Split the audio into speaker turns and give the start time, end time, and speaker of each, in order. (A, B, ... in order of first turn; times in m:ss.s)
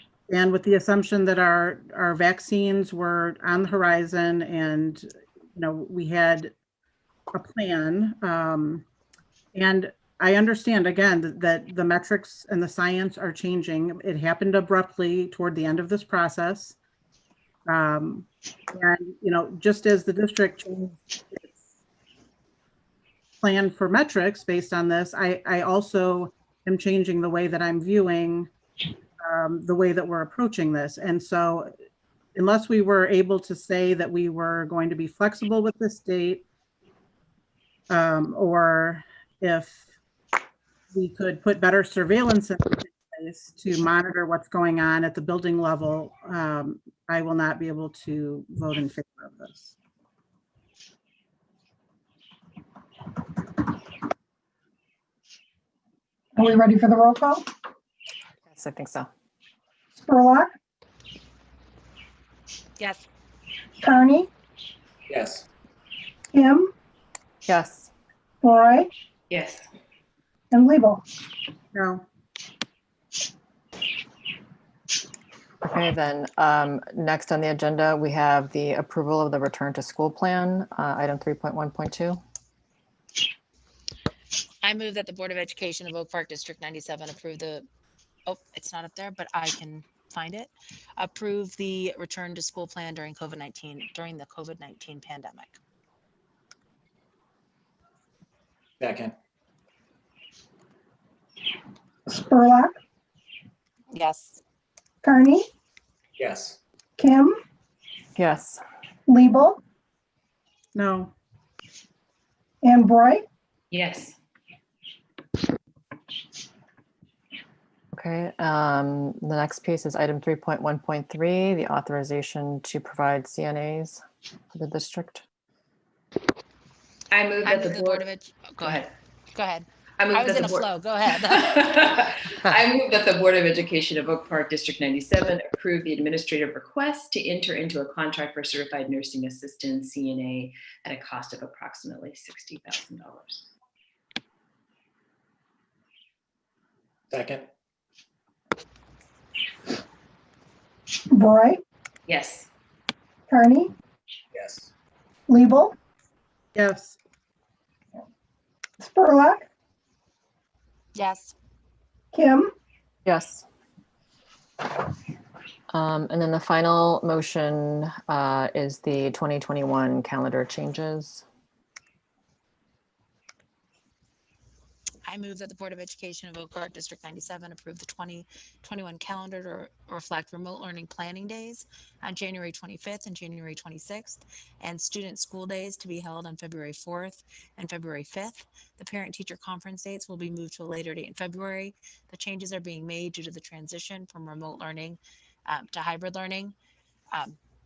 0:00.3-0:06.5 A
0:07.3-0:08.9 A
0:09.5-0:16.8 A
0:17.7-0:21.6 A
0:23.4-0:28.5 A
0:29.2-0:31.7 A
0:32.4-0:36.5 A
0:37.9-0:39.8 A
0:40.9-0:49.8 A
0:56.4-0:57.5 B
0:58.5-0:59.1 C
1:00.0-1:00.5 B
1:03.8-1:04.3 B
1:05.1-1:05.4 D
1:06.3-1:06.7 B
1:07.5-1:07.9 C
1:08.4-1:08.9 B
1:09.3-1:09.6 E
1:10.5-1:11.0 B
1:11.7-1:12.0 A
1:15.6-1:22.2 C
1:24.6-1:27.7 F
1:28.3-1:35.6 F
1:38.8-1:39.2 D
1:42.1-1:42.8 B
1:43.9-1:44.4 F
1:45.0-1:45.4 B
1:46.2-1:46.6 D
1:47.0-1:47.4 B
1:48.2-1:48.6 C
1:49.1-1:49.6 B
1:50.7-1:51.1 A
1:52.6-1:53.2 B
1:53.7-1:54.2 E
1:57.9-2:04.0 C
2:04.5-2:05.2 C
2:07.1-2:08.1 E
2:07.4-2:11.7 F
2:08.6-2:08.9 E
2:10.0-2:23.5 E
2:27.1-2:27.5 D
2:31.1-2:31.6 B
2:32.1-2:32.5 E
2:33.3-2:33.7 B
2:34.3-2:34.7 D
2:35.3-2:35.8 B
2:36.6-2:37.0 A
2:38.8-2:39.5 B
2:41.0-2:41.3 F
2:42.1-2:42.5 B
2:43.1-2:43.4 C
2:45.7-2:51.2 C
2:55.1-3:16.5 F